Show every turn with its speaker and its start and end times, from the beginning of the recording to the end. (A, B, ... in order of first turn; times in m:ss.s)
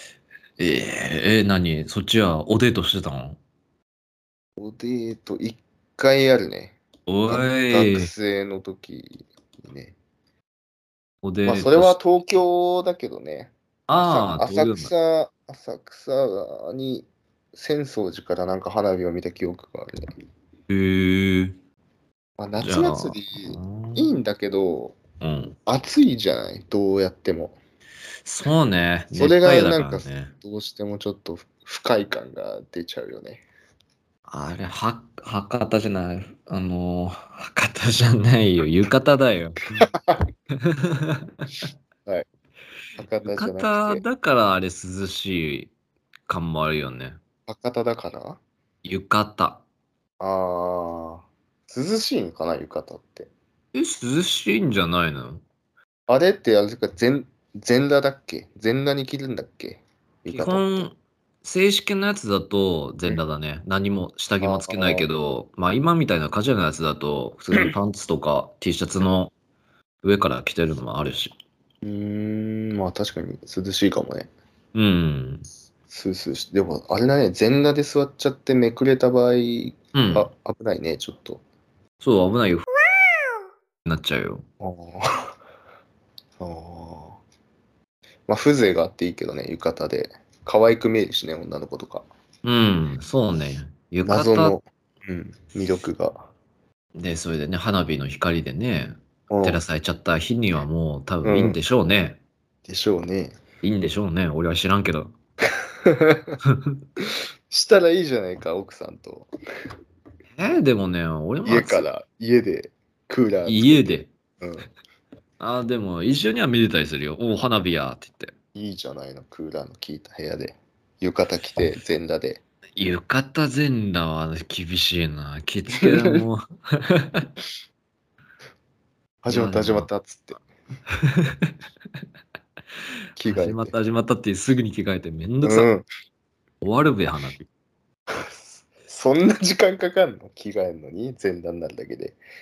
0:00.6-0:03.4 A
0:04.6-0:06.8 B
0:07.1-0:08.1 A
0:07.3-0:10.0 B
0:11.2-0:12.0 A
0:11.4-0:20.1 B
0:13.9-0:14.9 A
0:20.7-0:21.6 A
0:22.4-0:25.0 B
0:22.6-0:24.1 A
0:25.2-0:25.6 A
0:25.6-0:27.6 B
0:28.2-0:30.3 A
0:29.1-0:33.4 B
0:34.3-0:39.9 A
0:39.8-0:40.3 B
0:40.6-0:41.7 A
0:43.0-0:44.0 B
0:43.2-0:45.7 A
0:46.3-0:47.2 A
0:47.5-0:48.4 B
0:48.8-0:49.6 A
0:50.2-0:53.3 B
0:53.7-0:55.4 A
0:56.1-1:00.9 B
1:00.3-1:09.3 A
1:04.4-1:05.0 B
1:10.0-1:11.3 A
1:11.8-1:14.3 B
1:14.7-1:15.4 A
1:15.9-1:21.4 B
1:19.9-1:20.3 A
1:22.0-1:22.7 A
1:23.8-1:24.4 A
1:24.6-1:25.3 B
1:26.4-1:27.2 B
1:28.3-1:32.0 B
1:32.4-1:34.6 A
1:34.0-1:36.3 B
1:37.0-1:42.2 A
1:39.3-1:39.6 B
1:41.2-1:41.6 B
1:42.6-1:43.3 B
1:43.6-1:45.1 A
1:45.8-1:46.3 B
1:47.0-1:49.3 B
1:50.4-1:51.9 A
1:51.4-1:54.7 B
1:53.4-1:54.1 A
1:55.4-1:58.3 A
1:58.5-2:02.4 B
2:02.8-2:07.3 A
2:05.8-2:06.2 B
2:09.2-2:10.4 B
2:09.3-2:09.9 A
2:10.9-2:11.5 A
2:13.2-2:13.7 B
2:13.2-2:15.7 A
2:15.4-2:15.9 B
2:16.6-2:17.5 A
2:18.1-2:22.2 B